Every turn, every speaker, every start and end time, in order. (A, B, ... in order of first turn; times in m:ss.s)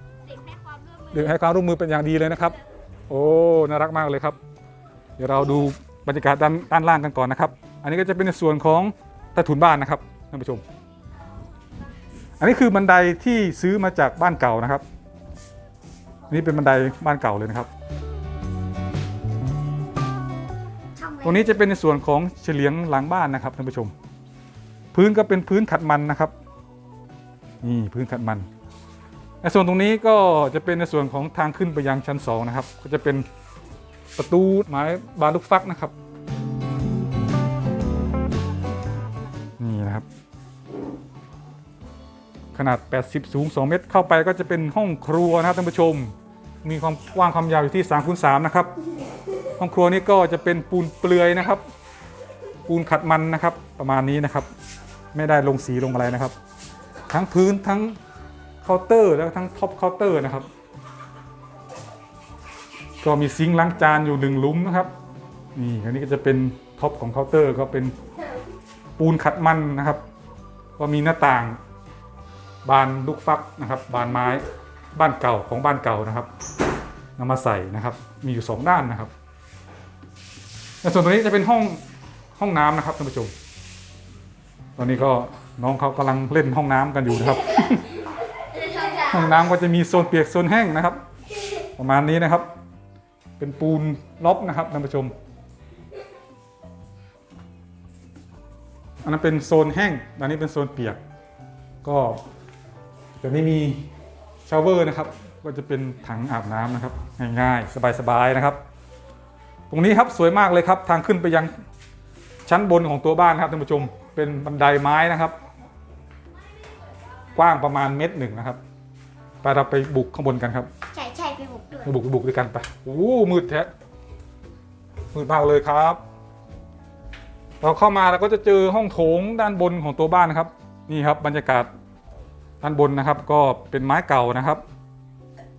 0:00.3-0:01.1 A
0:01.1-0:04.4 B
0:05.2-0:10.6 B
0:12.4-0:14.8 B
0:16.3-0:17.7 B
0:21.0-0:21.2 A
0:21.2-0:23.9 B
0:24.9-0:26.3 B
0:27.6-0:28.5 B
0:29.4-0:33.3 B
0:34.2-0:35.9 B
0:39.6-0:40.1 B
0:42.5-0:48.7 B
0:49.6-0:51.6 B
0:52.6-0:54.5 B
0:55.1-0:56.3 B
0:57.1-0:58.0 B
0:58.6-1:00.5 B
1:03.0-1:04.9 B
1:05.5-1:08.0 B
1:09.0-1:10.0 B
1:10.8-1:11.6 B
1:12.6-1:16.3 B
1:17.2-1:19.1 B
1:20.8-1:21.8 B
1:22.4-1:23.3 B
1:24.8-1:28.0 B
1:28.9-1:31.0 B
1:31.8-1:32.5 B
1:33.4-1:35.1 B
1:39.0-1:41.0 B
1:41.8-1:42.2 B
1:43.2-1:43.9 B
1:44.4-1:48.6 B
1:49.7-1:51.5 B
1:52.4-1:55.4 B
1:57.3-1:58.6 B
1:59.4-2:00.7 B
2:00.9-2:01.9 A
2:01.8-2:03.7 B
2:05.1-2:06.0 B
2:07.6-2:11.7 B
2:12.6-2:14.6 B